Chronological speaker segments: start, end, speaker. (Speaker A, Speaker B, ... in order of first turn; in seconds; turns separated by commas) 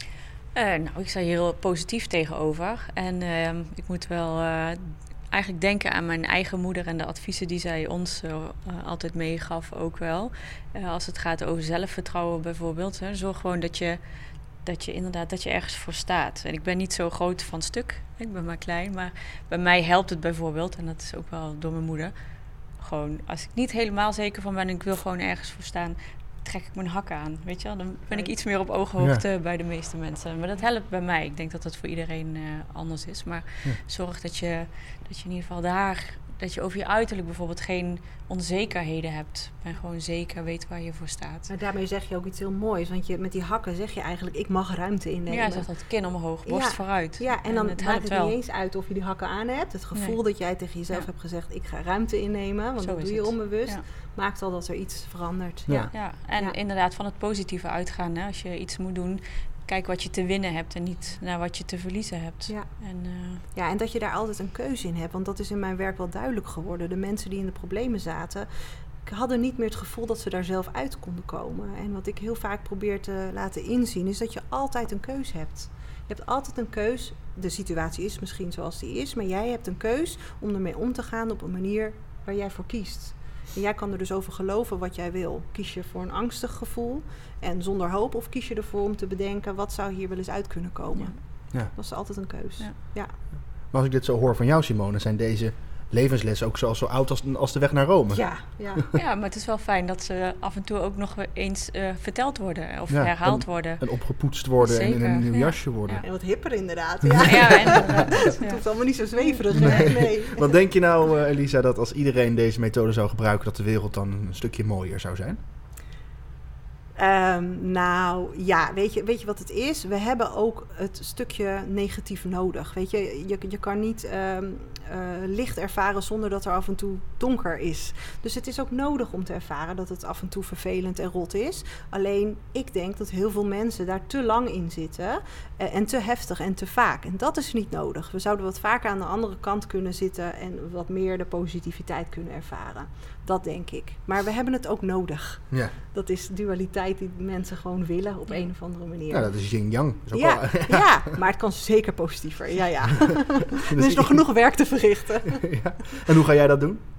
Speaker A: 0.5-14.0, Speaker A: 14.6-41.5, Speaker B: 28.1-28.4, Speaker C: 29.0-29.2, Speaker B: 41.5-56.6, Speaker A: 45.3-48.4, Speaker A: 50.0-51.1, Speaker A: 52.8-53.8, Speaker C: 55.7-55.9, Speaker A: 55.9-63.4, Speaker B: 62.5-62.8, Speaker B: 63.3-68.5, Speaker B: 69.0-93.2, Speaker C: 93.3-98.3, Speaker B: 98.1-98.8, Speaker A: 99.0-106.0, Speaker C: 102.9-106.1, Speaker B: 106.0-110.5, Speaker A: 107.2-109.9, Speaker C: 109.5-115.4, Speaker B: 117.0-149.3, Speaker C: 149.1-151.2, Speaker B: 150.1-155.5, Speaker C: 153.7-154.7, Speaker C: 155.4-156.8